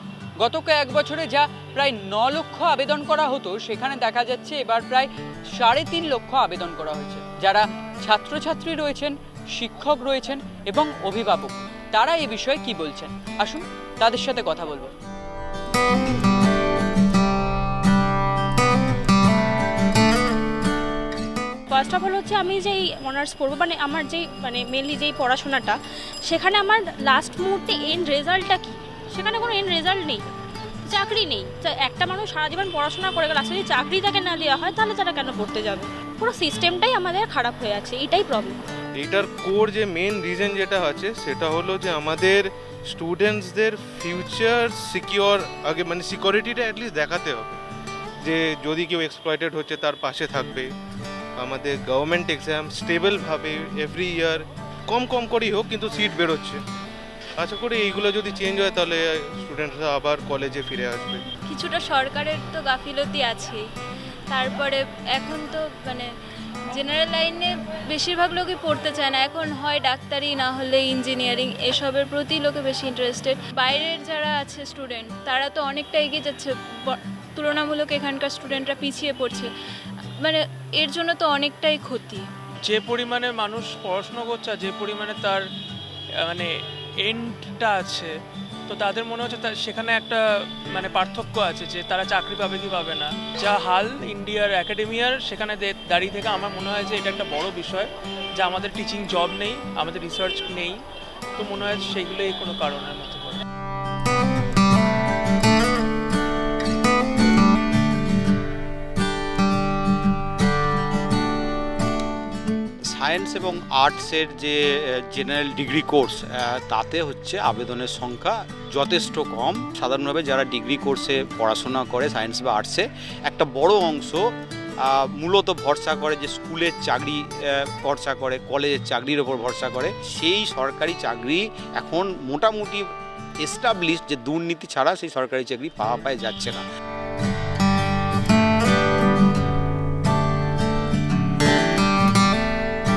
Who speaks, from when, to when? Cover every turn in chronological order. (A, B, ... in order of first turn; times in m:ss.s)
0:00.4-0:14.9 A
0:21.7-0:30.2 B
0:30.8-0:38.6 B
0:39.0-0:47.6 C
0:48.2-0:50.7 C
0:51.4-0:56.6 C
0:57.4-1:01.2 C
1:01.5-1:03.6 D
1:04.3-1:06.1 D
1:06.7-1:19.5 D
1:20.2-1:22.2 D
1:22.6-1:25.4 E
1:26.2-1:28.1 E
1:28.7-1:40.8 E
1:41.4-1:43.4 E
1:52.9-2:04.2 F
2:04.8-2:12.9 F
2:13.4-2:16.6 F